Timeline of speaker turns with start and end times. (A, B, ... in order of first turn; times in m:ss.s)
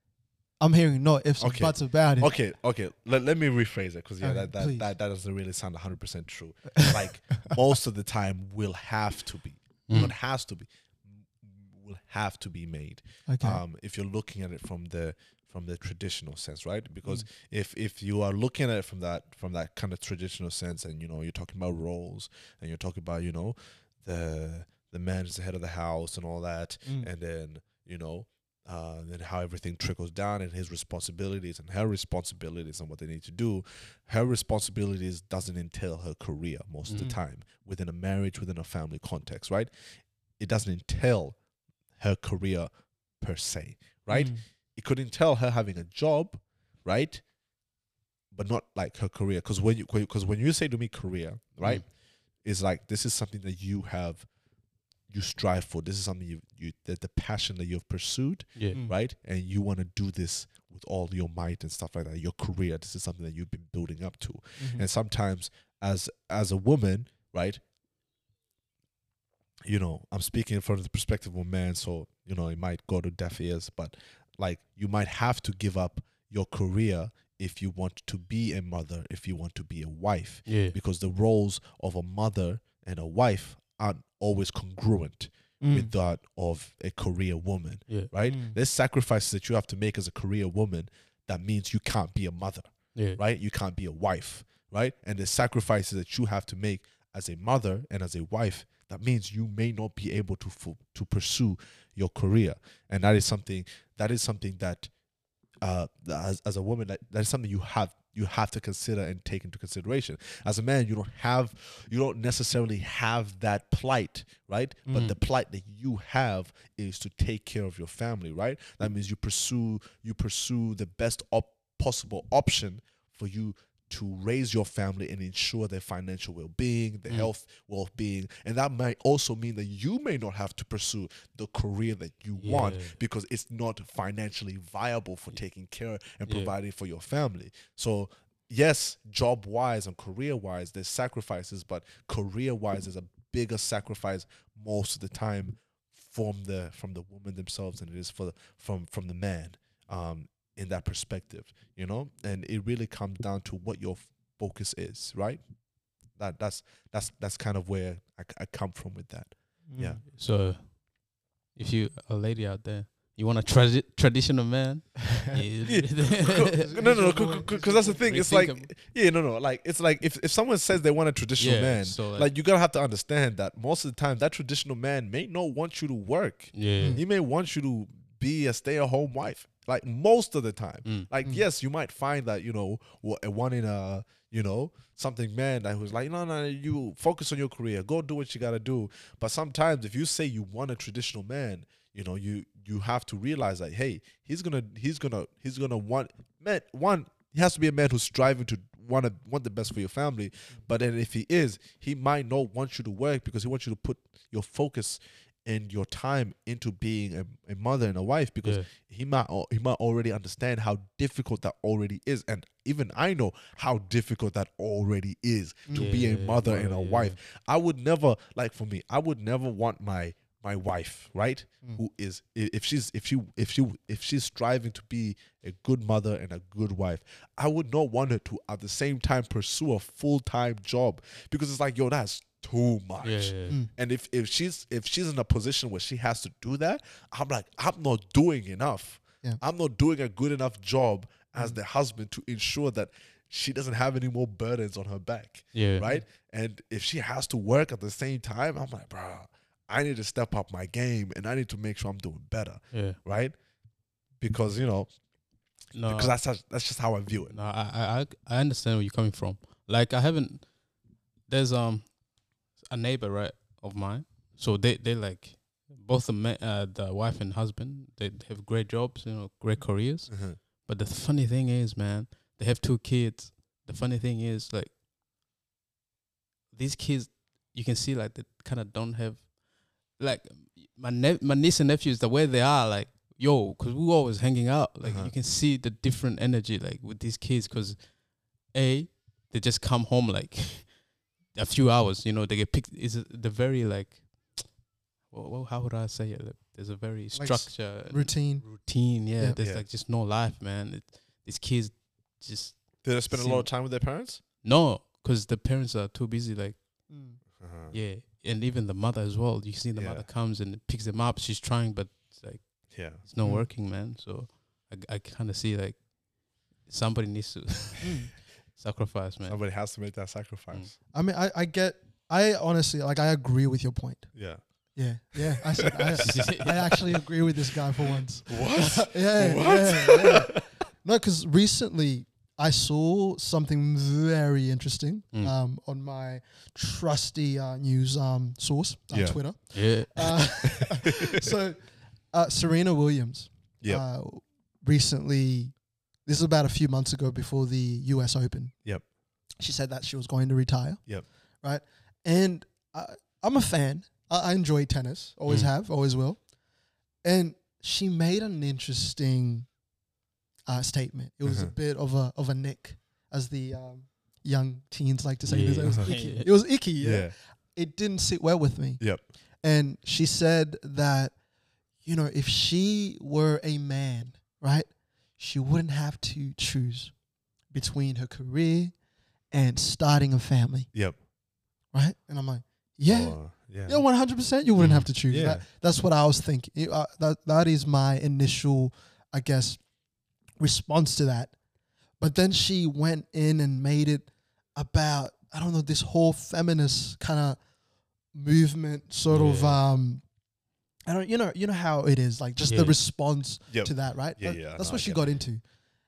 0:00.6-0:02.3 A
0:01.4-0:10.7 B
0:04.2-0:04.9 A
0:06.8-0:07.4 A
0:09.9-0:10.1 C
0:11.4-0:39.7 B
0:13.3-0:13.6 A
0:40.4-0:41.4 B
0:42.0-0:42.7 B
0:43.2-0:47.2 B
0:44.1-0:44.4 A
0:48.3-0:51.8 B
0:52.4-0:54.3 B
0:55.1-1:07.6 B
1:04.6-1:04.9 A
1:09.6-1:44.9 B
1:20.5-1:20.8 C
1:25.6-1:25.9 A
1:28.2-1:28.6 A
1:33.0-1:33.2 C
1:45.6-2:35.4 B
2:12.4-2:13.0 C
2:16.3-2:16.5 C
2:36.1-2:40.0 B
2:39.7-2:40.0 A
2:40.0-2:40.9 C
2:41.5-2:46.7 C
2:45.6-4:13.4 B
2:46.6-2:48.0 A
2:48.0-2:48.7 C
2:51.4-2:52.3 C
2:56.6-2:57.0 C
3:35.7-3:35.9 A
3:35.8-3:37.2 C
3:53.0-3:53.6 C
4:05.5-4:05.9 C
4:12.7-4:13.0 C
4:14.2-4:14.9 B
4:15.7-4:16.2 C
4:15.9-4:17.4 B
4:17.3-4:20.5 C
4:21.3-4:22.0 C
4:22.5-4:34.7 C
4:30.1-4:30.4 B
4:36.5-4:39.3 C
4:39.9-4:47.9 C
4:44.8-4:45.1 B
4:48.4-4:50.8 C
4:51.3-4:54.6 C
4:55.1-5:03.5 C
4:57.1-4:58.5 A
4:59.4-4:59.7 B
5:02.8-5:04.2 B
5:04.4-5:06.6 C
5:06.9-5:07.2 A
5:07.4-5:07.8 B
5:07.7-5:15.9 C
5:09.8-5:10.1 B
5:12.7-5:13.0 B
5:13.2-5:13.5 A
5:16.6-5:19.4 C
5:17.8-5:18.1 A
5:19.3-5:20.7 B
5:20.9-5:24.1 A
5:24.1-5:24.4 B
5:24.8-5:41.6 A
5:25.8-5:26.2 B
5:26.0-5:26.8 C
5:28.3-5:30.4 B
5:38.9-5:39.2 B
5:39.5-5:40.3 C
5:40.6-5:41.3 B
5:42.1-5:48.5 A
5:49.4-5:50.8 A
5:51.4-5:56.2 A
5:57.0-5:59.5 A
6:00.5-6:08.8 A
6:01.3-6:01.5 B
6:05.3-6:06.3 C
6:06.8-6:07.1 B
6:09.4-6:11.2 A
6:11.8-6:16.9 A
6:17.5-6:18.7 A
6:19.3-6:20.7 A
6:21.7-6:29.6 A
6:22.9-6:23.8 B
6:24.6-6:24.9 C
6:25.1-6:25.4 B
6:30.4-6:31.3 A
6:32.0-6:37.4 A
6:38.1-6:40.0 A
6:39.1-6:39.6 C
6:40.9-6:45.4 A
6:42.4-6:42.8 C
6:43.5-6:45.2 B